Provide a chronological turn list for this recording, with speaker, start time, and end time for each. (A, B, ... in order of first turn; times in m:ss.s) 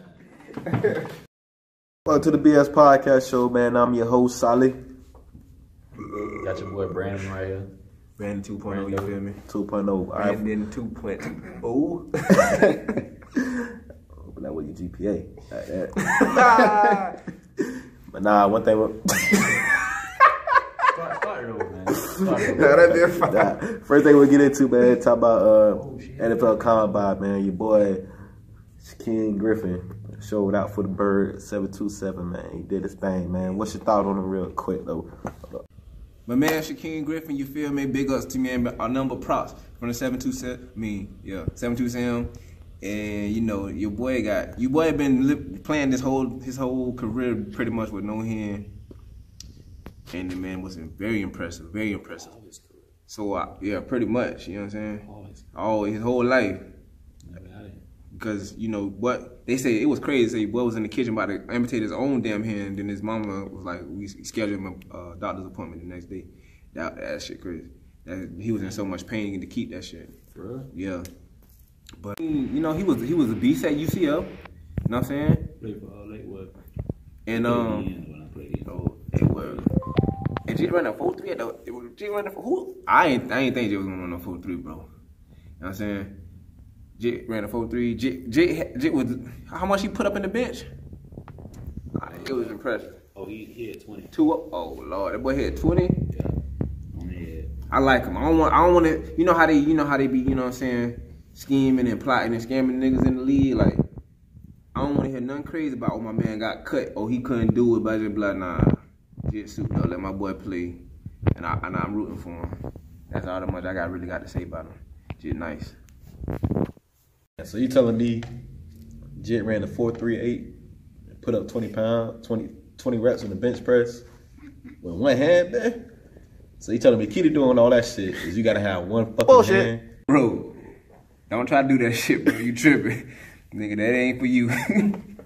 0:00.6-0:01.1 A
0:02.1-0:04.8 B
0:06.3-0:07.7 C
0:08.2-0:09.4 A
0:08.7-0:09.2 C
0:09.5-0:10.4 B
0:10.2-0:13.0 A
0:13.4-0:13.6 B
0:14.2-0:17.0 B
0:16.2-0:17.2 A
0:18.1-0:19.7 B
0:20.9-0:22.8 C
0:22.0-0:28.0 B
0:22.4-0:23.6 A
0:25.8-0:26.9 C
0:28.8-0:35.6 B
0:36.3-0:48.7 A
0:50.1-0:52.3 A
0:52.1-0:52.9 C
0:53.1-0:56.6 A
0:55.0-0:55.5 C
0:57.2-0:57.8 C
0:58.1-1:10.2 A
1:10.4-1:10.7 C
1:10.7-1:11.1 A
1:12.0-1:14.3 A
1:14.9-1:15.5 A
1:15.6-1:16.6 C
1:17.3-1:17.9 A
1:17.3-1:19.7 C
1:18.7-1:19.7 A
1:20.5-1:24.9 A
1:25.6-1:26.1 A
1:27.0-1:30.7 A
1:32.0-1:33.0 A
1:32.0-1:32.6 C
1:33.2-1:34.3 C
1:34.1-1:36.1 A
1:36.9-1:37.5 C
1:37.7-1:43.8 A
1:44.7-1:55.8 A
1:57.4-1:58.3 B
1:59.2-2:00.5 B
2:01.2-2:04.0 B
2:04.8-2:05.8 B
2:06.6-2:09.8 B
2:09.5-2:10.7 A
2:11.3-2:15.0 A